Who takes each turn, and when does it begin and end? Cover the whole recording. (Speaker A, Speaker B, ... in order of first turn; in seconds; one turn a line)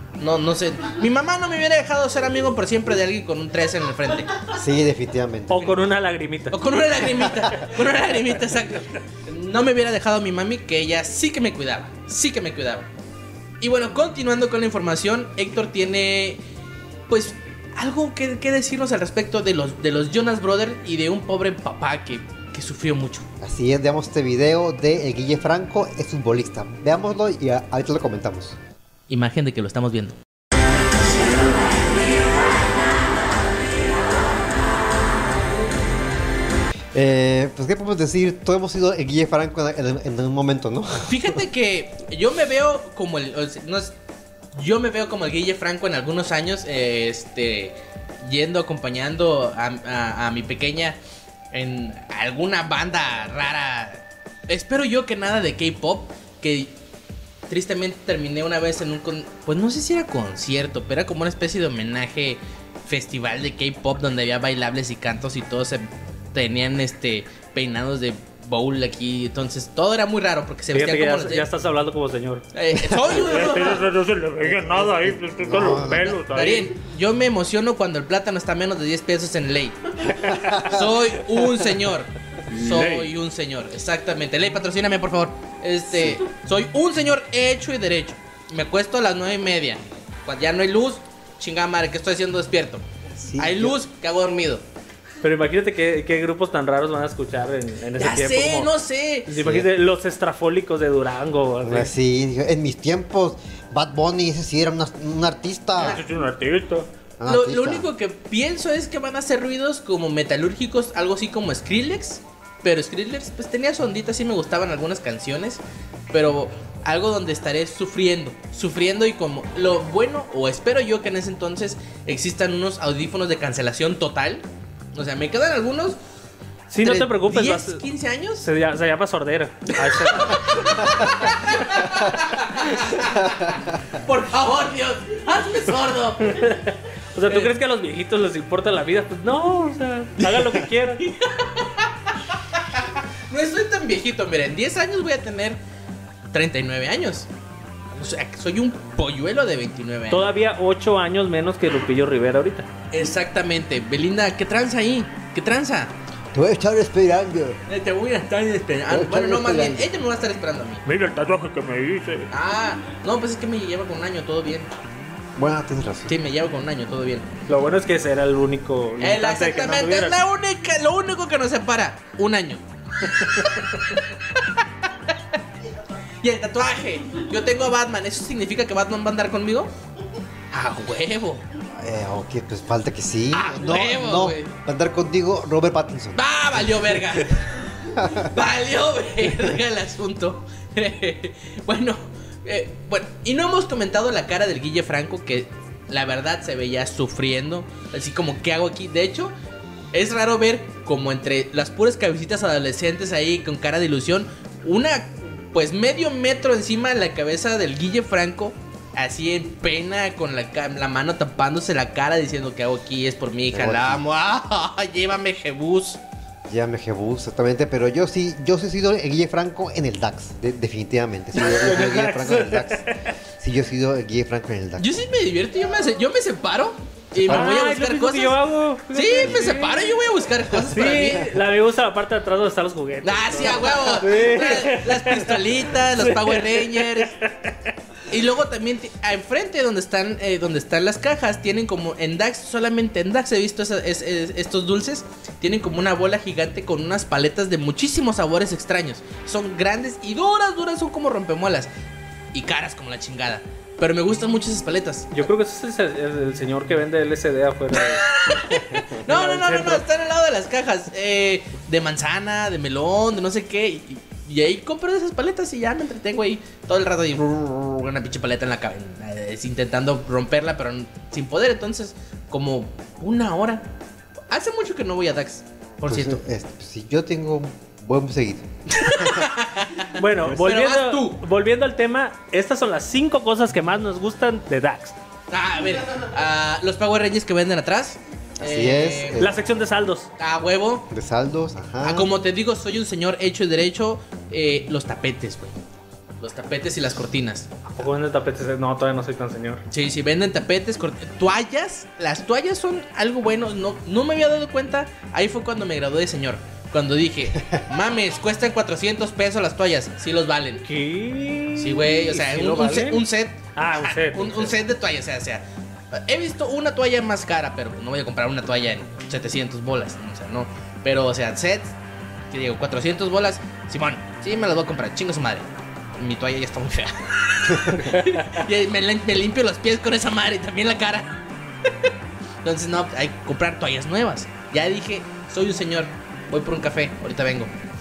Speaker A: 0.2-4.5
Speaker B: 4.5-5.6
Speaker C: 5.5-6.6
Speaker A: 6.5-12.9
Speaker B: 7.2-7.5
Speaker A: 13.6-16.4
Speaker A: 17.1-23.2
Speaker B: 23.4-28.6
Speaker A: 29.1-30.2
Speaker B: 36.9-41.4
Speaker A: 41.0-43.9
Speaker A: 44.5-51.0
Speaker A: 51.5-56.7
Speaker A: 57.5-71.5
Speaker C: 70.7-72.4
Speaker A: 72.5-73.8
Speaker C: 73.1-76.7
Speaker B: 74.5-76.2
Speaker A: 76.2-92.8
Speaker C: 80.2-80.5
Speaker B: 80.3-80.8
Speaker C: 82.5-83.1
Speaker B: 85.9-86.2
Speaker B: 93.1-93.8
Speaker A: 93.4-94.6
Speaker C: 95.2-98.7
Speaker A: 98.0-99.3
Speaker C: 99.2-101.9
Speaker B: 99.3-99.7
Speaker B: 101.6-106.0
Speaker A: 105.8-106.0
Speaker C: 105.8-106.9
Speaker B: 107.2-107.9
Speaker A: 107.2-126.0
Speaker C: 126.7-127.8
Speaker A: 126.8-128.5
Speaker C: 128.4-131.6
Speaker A: 129.8-136.5
Speaker C: 136.2-141.1
Speaker A: 141.0-145.6
Speaker A: 146.3-147.3
Speaker A: 147.9-150.2
Speaker C: 150.1-152.7
Speaker A: 152.9-155.9
Speaker B: 156.3-157.6
Speaker A: 157.7-160.8
Speaker B: 158.9-159.9
Speaker C: 160.8-162.3
Speaker A: 162.3-164.7
Speaker B: 165.3-166.1
Speaker A: 166.1-167.3
Speaker C: 167.5-170.2
Speaker A: 169.0-174.6
Speaker A: 176.2-179.7
Speaker A: 180.5-181.4
Speaker B: 181.8-187.2
Speaker A: 183.3-184.6
Speaker A: 186.1-199.3
Speaker B: 187.9-188.3
Speaker A: 199.9-216.0
Speaker B: 213.5-214.0
Speaker B: 216.5-222.9
Speaker C: 221.3-223.1
Speaker B: 223.4-224.9
Speaker A: 224.8-228.4
Speaker B: 227.2-227.6
Speaker C: 227.3-229.9
Speaker A: 228.9-231.3
Speaker C: 230.7-237.5
Speaker A: 233.0-237.2
Speaker A: 238.1-251.7
Speaker A: 252.3-255.1
Speaker C: 255.1-258.0
Speaker A: 257.7-273.7
Speaker C: 259.1-259.8
Speaker A: 274.3-276.2
Speaker B: 275.9-279.3
Speaker A: 278.7-281.2
Speaker C: 279.9-284.9
Speaker A: 285.3-289.2
Speaker B: 288.4-289.3
Speaker C: 289.2-290.1
Speaker A: 290.2-290.9
Speaker B: 290.9-292.1
Speaker A: 291.8-295.6
Speaker A: 296.2-297.6
Speaker C: 297.7-299.6
Speaker A: 299.7-310.6
Speaker C: 310.6-313.0
Speaker A: 311.6-321.7
Speaker C: 313.6-314.5
Speaker A: 322.3-331.2
Speaker C: 327.9-328.3
Speaker A: 332.4-337.5